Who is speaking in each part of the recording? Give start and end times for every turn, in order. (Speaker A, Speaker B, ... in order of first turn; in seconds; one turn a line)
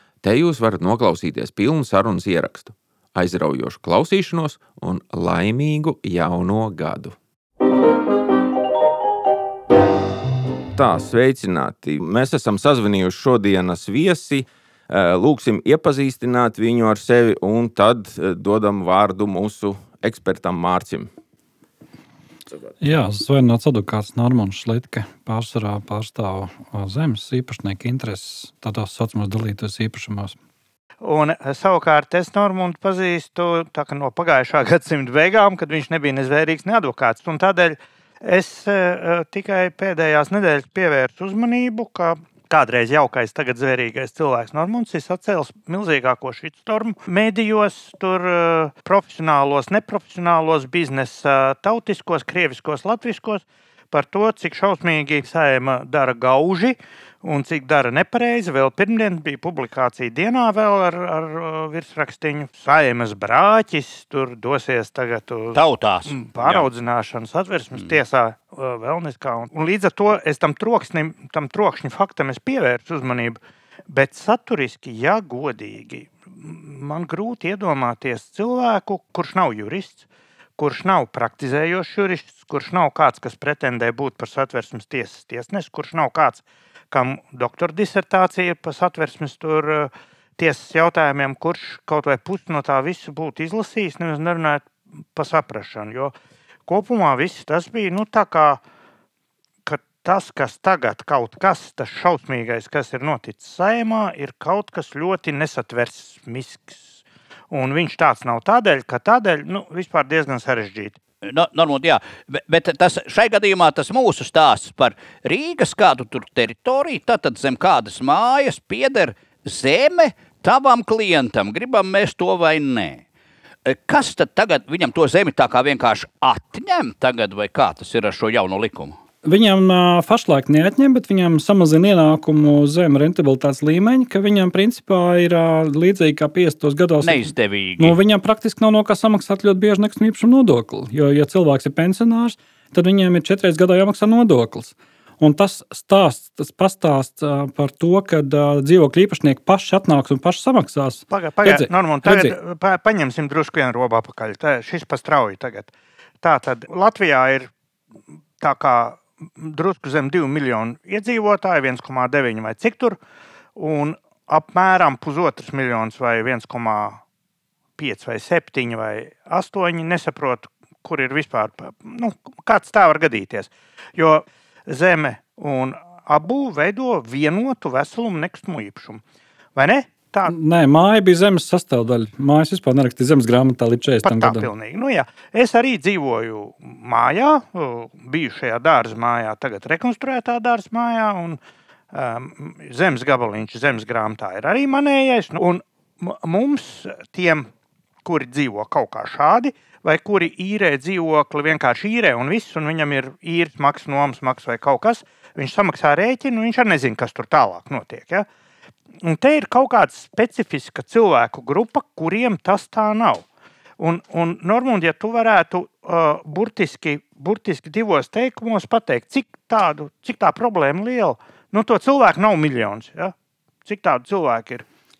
Speaker A: 0.2-7.2
Speaker A: 10.8-21.1
Speaker B: 22.8-30.4
Speaker C: 31.0-73.4
Speaker D: 65.5-66.7
Speaker C: 73.9-80.0
Speaker C: 80.6-96.1
Speaker C: 96.7-98.6
Speaker C: 99.7-106.9
Speaker C: 107.5-111.0
Speaker D: 111.2-123.0
Speaker D: 123.7-129.0
Speaker B: 129.2-152.4
Speaker D: 137.0-138.0
Speaker C: 151.1-157.5
Speaker C: 158.4-163.0
Speaker C: 163.6-167.0
Speaker C: 167.8-179.0
Speaker C: 179.6-180.3
Speaker B: 180.2-184.5
Speaker C: 184.0-191.4
Speaker C: 191.9-197.5
Speaker C: 198.0-208.3
Speaker C: 209.0-213.2
Speaker C: 213.8-223.1
Speaker C: 223.7-224.7